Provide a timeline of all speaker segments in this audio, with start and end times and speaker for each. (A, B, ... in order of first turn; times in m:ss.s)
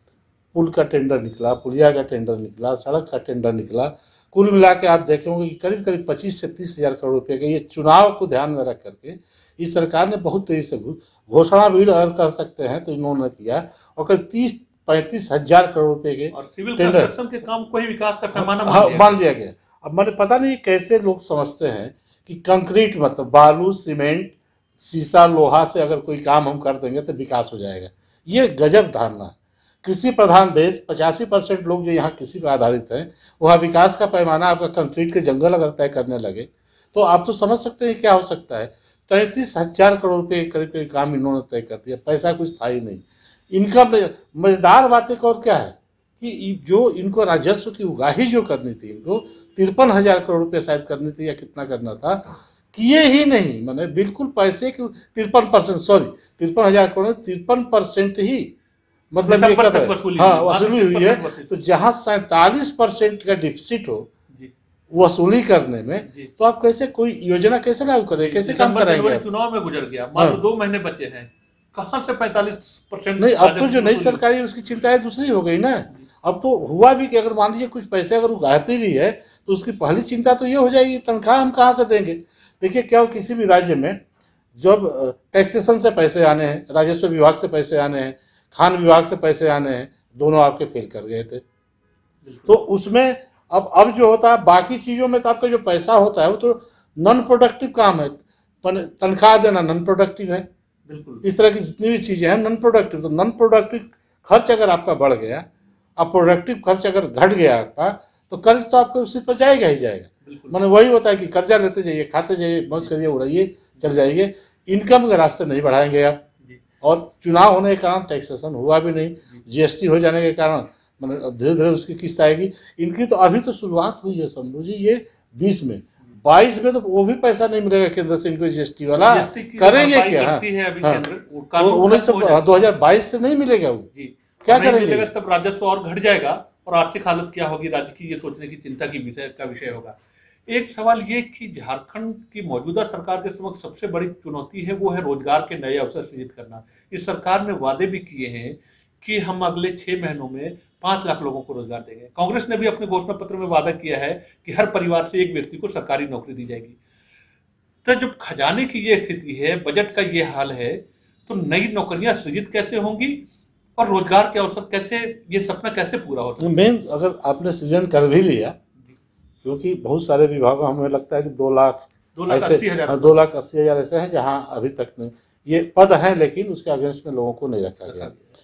0:00.5-0:17.1 A
0:16.3-0:19.2 B
0:18.3-0:58.5 A
0:59.1-1:04.1 A
0:59.2-1:01.6 B
1:04.9-1:09.2 A
1:06.0-1:06.3 B
1:08.2-1:14.2 B
1:13.2-1:24.0 A
1:24.5-1:31.4 A
1:32.2-1:32.6 B
1:32.5-1:40.4 A
1:40.9-1:41.2 B
1:41.2-1:45.4 A
1:46.0-1:56.2 A
1:50.2-1:50.6 B
1:56.8-2:11.0 A
2:09.0-2:12.6 B
2:11.6-2:13.9 A
2:13.9-2:36.8 B
2:14.4-2:15.1 A
2:37.8-2:46.7 B
2:46.4-2:48.6 A
2:49.4-2:58.1 A
2:52.1-2:53.2 B
2:57.8-2:58.3 B